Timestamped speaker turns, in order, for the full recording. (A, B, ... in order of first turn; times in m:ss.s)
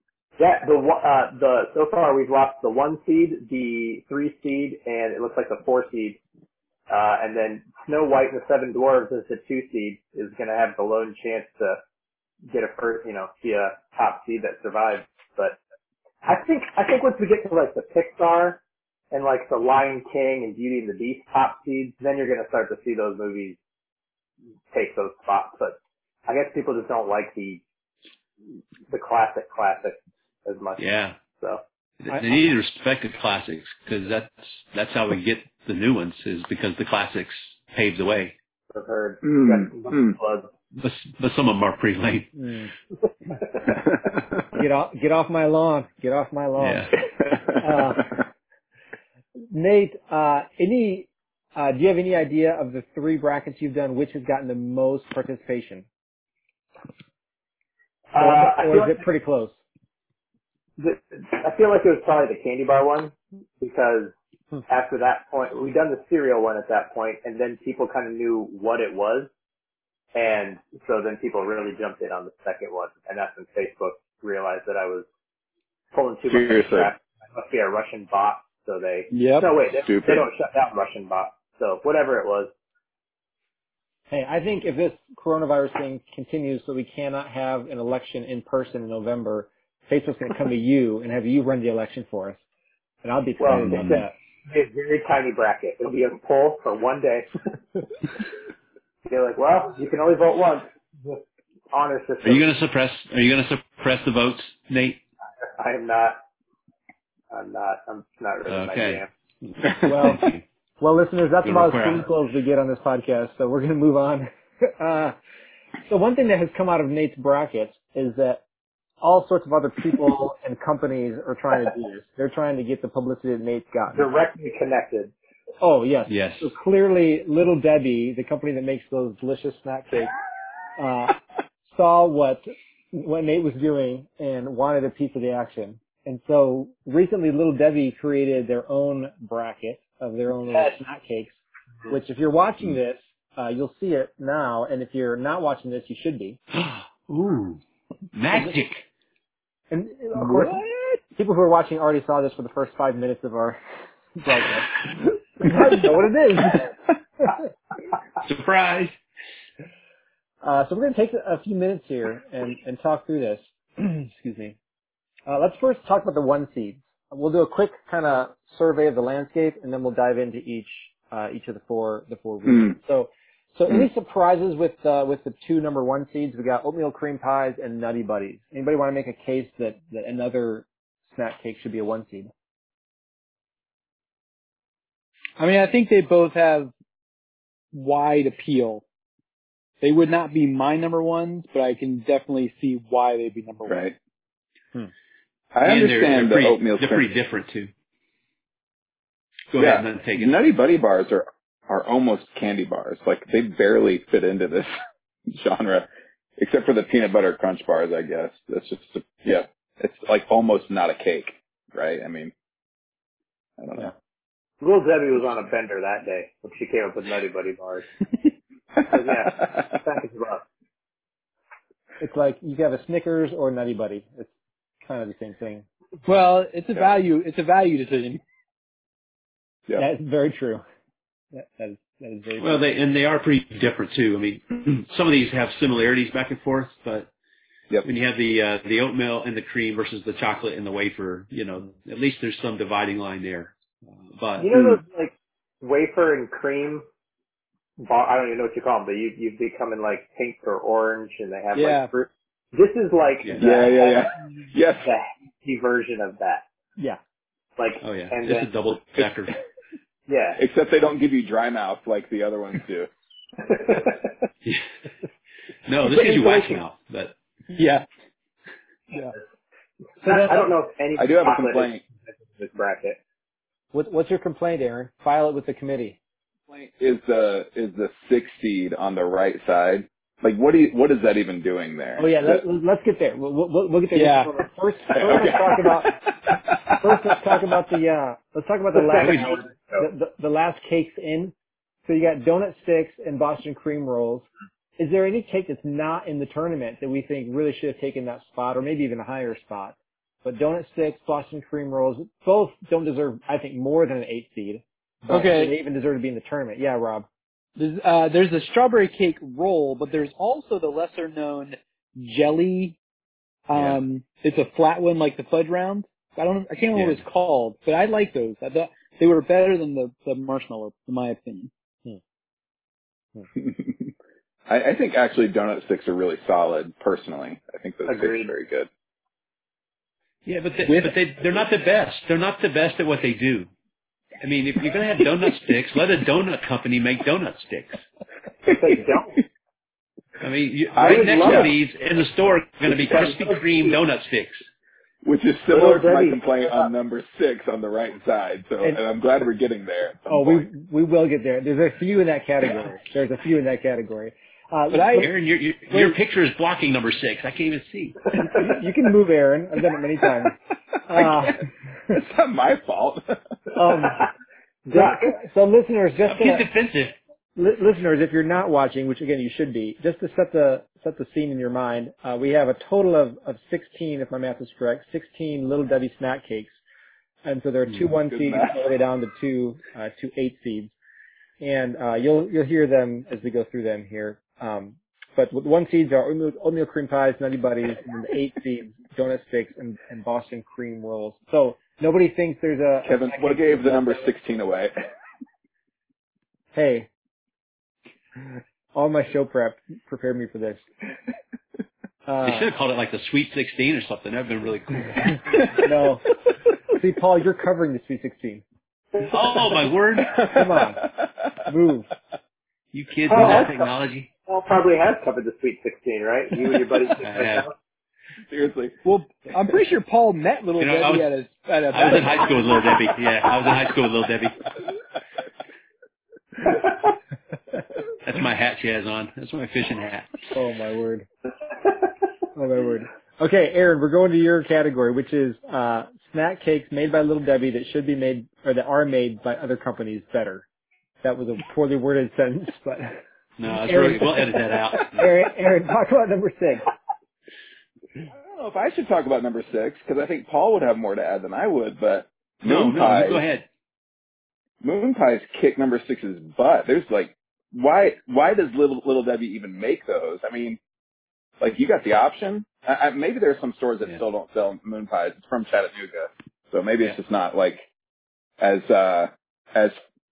0:00.4-0:06.2 A
0:06.9-0:11.8 A
0:12.5-0:15.6 A
0:16.2-0:18.6 A
0:19.1-0:23.6 A
0:24.7-0:27.6 A
0:28.9-0:30.8 A
0:30.8-0:31.2 B
0:32.0-0:38.3 B
0:38.7-0:40.5 A
0:39.2-0:40.2 C
0:40.8-0:42.3 B
0:42.4-0:42.7 D
0:44.5-0:46.9 D
0:46.6-0:47.0 B
0:47.6-0:48.1 D
0:49.5-0:55.8 D
0:58.1-0:59.0 A
0:58.2-0:59.6 D
1:00.8-1:04.1 A
1:04.7-1:09.3 A
1:10.1-1:15.1 A
1:15.9-1:22.5 A
1:16.3-1:16.9 C
1:19.1-1:19.5 E
1:19.7-1:20.2 C
1:24.1-1:32.4 D
1:33.0-1:34.1 D
1:33.4-1:37.3 A
1:33.5-1:34.0 B
1:39.1-1:42.5 A
1:42.2-1:45.0 B
1:45.6-1:46.2 A
1:47.3-1:49.1 A
1:48.5-1:49.0 B
1:49.6-1:50.4 B
1:49.8-1:50.3 D
1:50.8-1:55.2 D
1:51.4-1:52.1 B
1:55.9-1:58.4 D
1:59.0-2:04.1 D
2:03.9-2:05.1 A
2:05.6-2:10.1 D
2:06.1-2:06.5 B
2:10.8-2:11.2 D
2:11.7-2:21.4 D
2:20.5-2:20.8 E
2:21.9-2:26.4 D
2:26.5-2:27.6 B
2:28.1-2:28.8 B
2:28.3-2:28.6 D
2:29.7-2:30.6 D
2:30.2-2:31.0 E
2:31.1-2:33.6 D
2:34.2-2:34.8 D
2:35.4-2:36.7 D
2:38.2-2:39.0 B
2:40.4-2:44.6 D
2:45.3-3:02.3 D
2:52.4-2:52.8 C
3:05.4-3:06.7 E
3:07.7-3:08.8 E
3:09.8-3:13.9 E
3:13.6-3:13.9 C
3:15.5-3:17.1 C
3:15.6-3:17.7 B
3:19.5-3:20.4 B
3:19.6-3:24.7 C
3:25.3-3:25.9 C
3:26.4-3:32.3 C
3:33.6-3:33.9 C
3:34.6-3:37.9 A
3:38.8-3:40.4 A
3:39.2-3:39.6 C
3:42.0-3:44.3 D
3:44.8-3:45.6 D
3:46.0-3:48.2 E
3:49.8-3:50.6 D
3:51.3-3:52.6 D
3:52.4-3:57.1 B
3:57.8-4:03.5 B
4:04.1-4:04.5 B
4:04.4-4:06.8 A
4:04.5-4:04.8 C
4:07.8-4:14.2 A
4:11.5-4:11.9 E
4:13.4-4:14.9 C
4:14.8-4:16.4 A
4:17.6-4:18.5 A
4:17.8-4:19.4 B
4:20.1-4:20.4 A
4:20.4-4:22.9 C
4:23.4-4:24.1 A
4:25.6-4:27.1 B
4:25.9-4:26.6 E
4:27.5-4:27.8 E
4:30.0-4:33.0 A
4:31.0-4:31.8 C
4:33.7-4:36.0 D
4:36.5-4:42.4 C
4:42.0-4:46.0 D
4:43.9-4:44.3 E
4:44.9-4:46.4 C
4:46.7-4:51.3 D
4:48.7-4:49.9 A
4:49.0-4:49.4 B
4:51.8-4:54.3 D
4:54.8-5:07.1 D
5:05.1-5:05.6 E
5:07.6-5:12.8 E
5:13.5-5:21.5 E
5:13.5-5:13.8 B
5:16.7-5:17.0 B
5:23.4-5:23.9 C
5:24.5-5:28.7 C
5:27.9-5:28.3 A
5:30.2-5:33.5 B
5:30.6-5:31.0 E
5:34.2-5:37.8 B
5:38.5-5:39.2 A
5:40.2-5:44.4 B
5:40.7-5:41.5 C
5:40.8-5:41.5 A
5:42.7-5:43.7 A
5:45.0-5:50.4 C
5:45.5-5:46.7 A
5:50.1-5:55.1 D
5:54.7-5:55.1 E
5:55.0-5:58.1 B
5:58.2-6:00.4 D
6:00.9-6:01.5 D
6:00.9-6:03.2 C
6:03.5-6:04.0 D
6:04.6-6:05.2 A
6:04.7-6:06.5 D
6:06.0-6:07.0 B
6:07.4-6:16.6 D
6:17.2-6:20.7 D
6:18.1-6:18.6 C
6:21.4-6:34.1 D
6:32.8-6:34.7 C
6:36.5-6:36.9 D
6:38.7-6:40.6 D
6:42.0-6:42.5 D
6:42.2-6:45.6 B
6:45.5-6:46.0 D
6:46.7-6:48.4 D
6:49.0-6:50.2 B
6:50.1-6:51.1 C
6:50.3-6:50.8 D
6:51.4-6:51.9 D
6:52.7-6:54.1 B
6:53.1-6:53.7 A
6:54.3-6:57.5 A
6:57.0-6:57.5 B
6:58.3-6:58.8 C
6:58.8-7:02.7 E
7:00.6-7:01.1 B
7:01.7-7:04.5 B
7:06.4-7:06.9 A
7:08.0-7:10.2 B
7:10.3-7:11.0 D
7:12.3-7:20.4 D
7:21.0-7:23.0 D
7:23.4-7:25.1 B
7:23.6-7:26.6 D
7:28.1-7:33.2 C
7:32.4-7:33.4 B
7:34.6-7:40.6 C
7:41.4-7:47.6 C
7:48.4-7:49.8 C